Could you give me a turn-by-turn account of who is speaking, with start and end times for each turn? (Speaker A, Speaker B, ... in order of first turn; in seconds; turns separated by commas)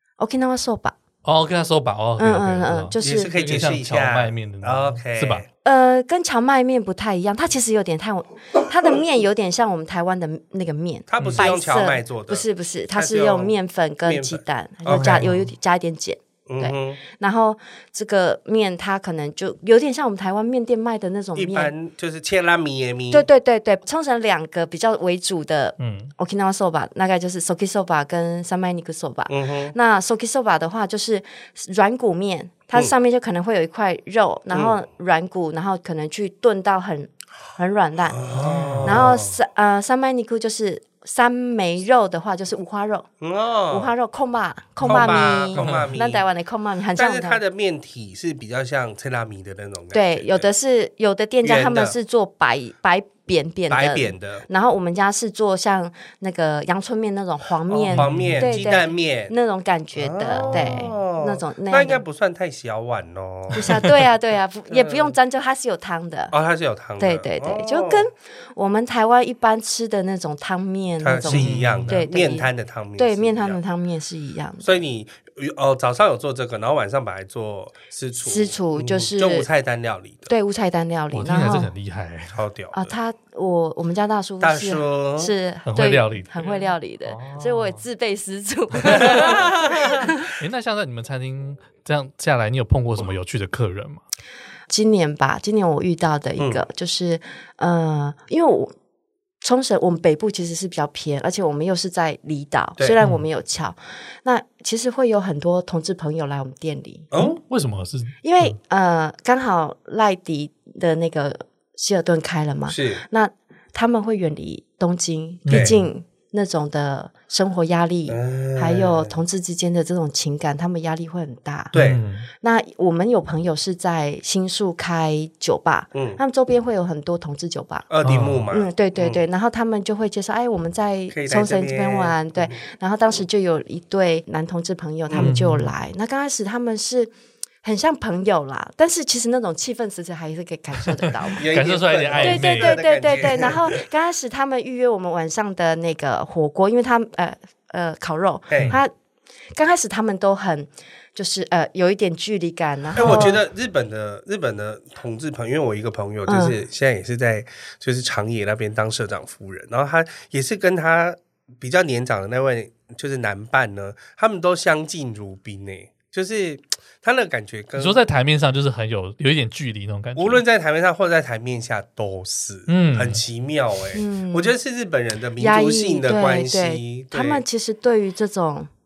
Speaker A: 0.2-0.9, Speaker B: 1.2-5.4, Speaker A: 2.2-3.3, Speaker C: 3.0-5.5, Speaker A: 5.6-21.7, Speaker C: 11.1-15.3, Speaker B: 14.9-15.5, Speaker C: 16.5-17.0, Speaker C: 21.4-23.2, Speaker A: 23.1-38.2, Speaker B: 25.8-26.1, Speaker C: 29.3-29.7, Speaker C: 34.5-34.8, Speaker C: 38.1-39.4, Speaker B: 38.4-39.0, Speaker A: 38.8-43.1, Speaker C: 43.2-43.9, Speaker A: 43.7-47.4, Speaker C: 44.8-46.2, Speaker B: 44.8-45.9, Speaker C: 47.0-50.5, Speaker A: 49.9-62.0, Speaker C: 51.4-52.0, Speaker C: 53.7-54.5, Speaker C: 57.7-59.3, Speaker B: 57.9-58.5, Speaker C: 60.0-63.9, Speaker B: 60.4-60.8, Speaker A: 63.5-66.3, Speaker C: 64.7-65.1, Speaker C: 66.3-68.0, Speaker A: 67.0-74.8, Speaker C: 71.0-73.6, Speaker B: 71.3-72.0, Speaker C: 74.6-80.3, Speaker A: 78.2-79.5, Speaker A: 80.3-81.7, Speaker B: 81.1-82.4, Speaker C: 82.3-82.9, Speaker A: 82.7-90.3, Speaker C: 84.4-85.3, Speaker B: 85.7-87.8, Speaker B: 88.8-89.4, Speaker C: 89.0-90.0, Speaker B: 90.3-94.0, Speaker A: 94.7-98.7, Speaker C: 96.4-96.6, Speaker A: 99.4-107.1, Speaker C: 107.1-107.4, Speaker B: 107.2-108.5, Speaker A: 108.2-121.7, Speaker C: 112.7-113.0, Speaker B: 115.5-115.8, Speaker C: 115.5-115.7, Speaker C: 118.1-119.1, Speaker B: 121.7-122.3, Speaker C: 121.7-122.0, Speaker A: 122.4-127.9, Speaker C: 125.9-126.2, Speaker C: 127.9-129.2, Speaker B: 128.0-128.4, Speaker A: 128.5-137.1, Speaker C: 131.1-132.6, Speaker B: 135.2-135.7, Speaker A: 137.6-141.4, Speaker C: 141.3-143.8, Speaker B: 141.4-142.8, Speaker A: 142.2-148.9, Speaker C: 148.5-148.8, Speaker A: 149.6-153.3, Speaker C: 152.9-168.0, Speaker B: 153.0-153.3, Speaker A: 156.3-156.6, Speaker B: 167.8-170.4, Speaker C: 170.2-177.4, Speaker B: 172.7-173.2, Speaker A: 173.9-174.5, Speaker A: 175.4-178.7